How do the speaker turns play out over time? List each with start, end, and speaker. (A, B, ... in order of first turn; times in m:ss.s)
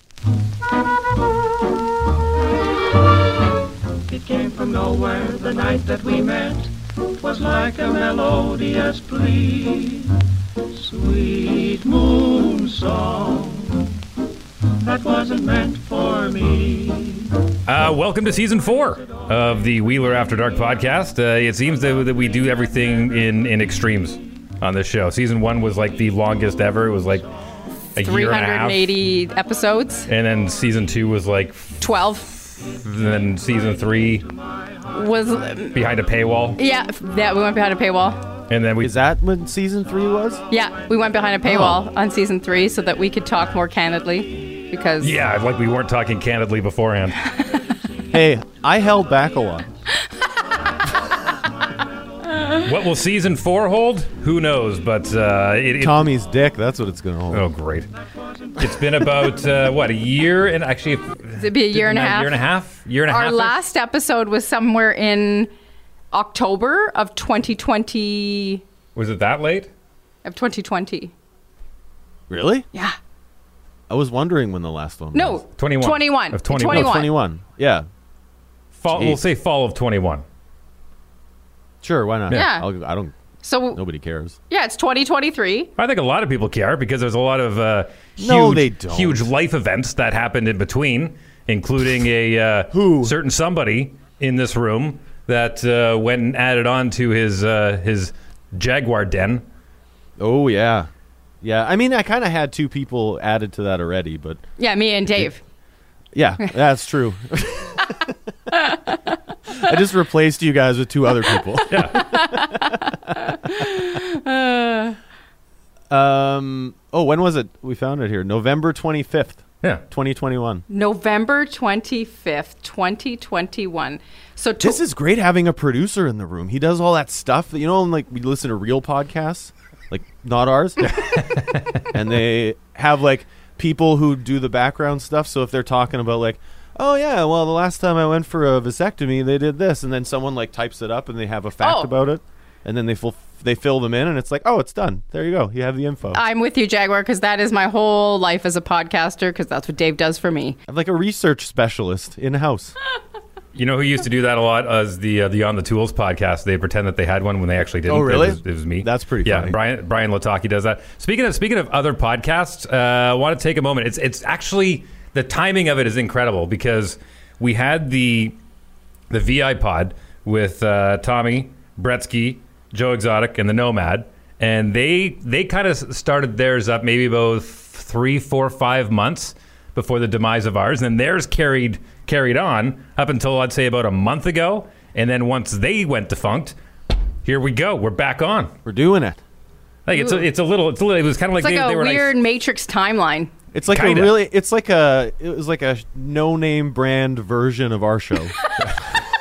0:04.1-0:10.2 A
0:10.8-0:13.9 A
0:14.8-0:17.4 A
0:17.7-0:27.3 B
0:28.0-0:28.9 B
0:28.0-0:30.1 C
0:30.1-0:31.8 B
0:31.8-0:32.4 C
0:32.6-0:34.3 B
0:34.9-0:35.8 C
0:35.7-0:36.6 B
0:36.6-0:38.2 C
0:38.5-0:39.0 B
0:38.8-0:40.4 D
0:40.5-0:45.2 C
0:41.4-0:41.8 D
0:45.0-0:47.2 B
0:48.1-0:49.7 D
0:52.6-0:56.1 B
0:55.8-0:57.5 D
0:57.3-0:57.9 B
0:58.6-1:03.6 B
1:01.4-1:02.4 C
1:03.1-1:05.5 C
1:06.1-1:08.6 C
1:09.0-1:09.7 B
1:10.2-1:11.1 C
1:12.3-1:12.7 D
1:13.9-1:15.4 D
1:15.1-1:17.1 C
1:15.6-1:17.0 B
1:16.6-1:17.9 D
1:18.8-1:20.2 B
1:18.9-1:19.2 D
1:21.8-1:23.1 D
1:22.3-1:22.7 C
1:23.4-1:23.8 C
1:23.7-1:24.4 D
1:24.5-1:25.7 C
1:25.8-1:39.4 B
1:28.2-1:29.2 D
1:32.7-1:33.2 D
1:40.2-1:40.9 D
1:41.4-1:44.4 D
1:44.6-1:45.4 C
1:46.1-1:48.2 D
1:49.6-1:52.0 D
1:51.7-1:52.2 B
1:51.9-1:55.0 C
1:55.9-2:00.6 D
2:00.7-2:04.8 C
2:04.6-2:11.2 D
2:11.1-2:11.6 B
2:11.8-2:26.2 D
2:21.6-2:21.9 C
2:26.1-2:30.6 C
2:30.7-2:32.8 D
2:33.6-2:48.4 B
2:37.9-2:39.6 D
2:49.1-3:06.6 B
3:07.2-3:08.5 B
3:08.6-3:09.2 D
3:09.9-3:12.2 B
3:09.9-3:10.3 C
3:11.4-3:13.3 C
3:13.5-3:18.5 D
3:13.7-3:14.2 B